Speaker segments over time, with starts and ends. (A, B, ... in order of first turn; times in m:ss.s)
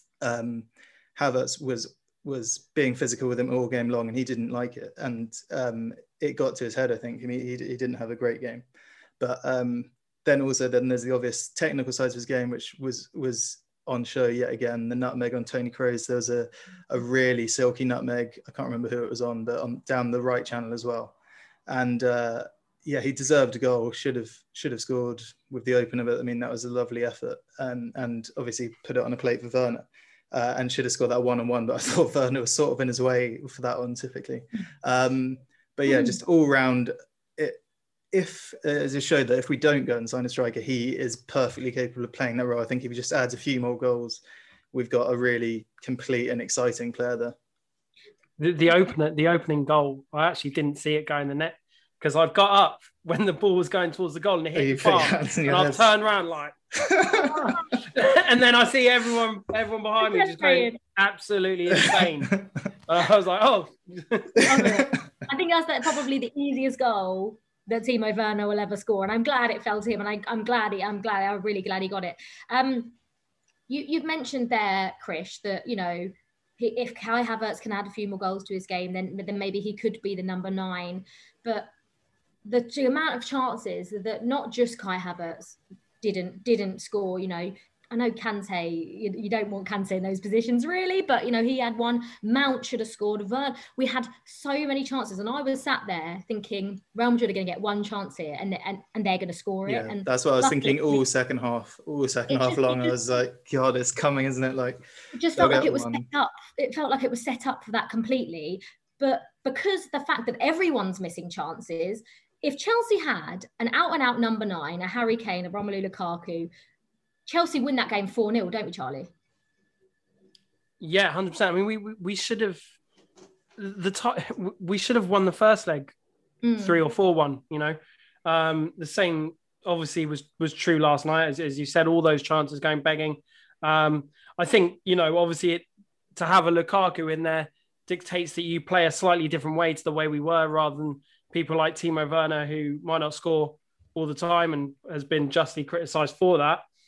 0:00.2-0:08.6 A
0:09.2-0:21.2 A
0:21.7-0:37.6 A
0:35.9-0:36.2 B
0:38.1-0:44.2 A
0:44.7-0:47.4 A
0:48.4-0:56.6 C
0:54.6-0:55.9 A
0:56.8-0:57.6 A
0:57.0-0:57.8 B
0:57.8-1:04.5 C
1:00.0-1:00.8 B
1:04.4-1:13.0 B
1:13.7-1:21.7 B
1:22.5-1:41.0 B
1:39.7-1:44.8 A
1:42.3-1:43.0 B
1:45.1-1:56.5 B
1:45.4-1:46.0 A
1:57.3-1:59.1 B
2:00.8-2:02.6 C
2:03.6-2:06.0 C
2:06.4-2:06.8 B
2:06.6-2:15.6 C
2:16.2-2:26.6 C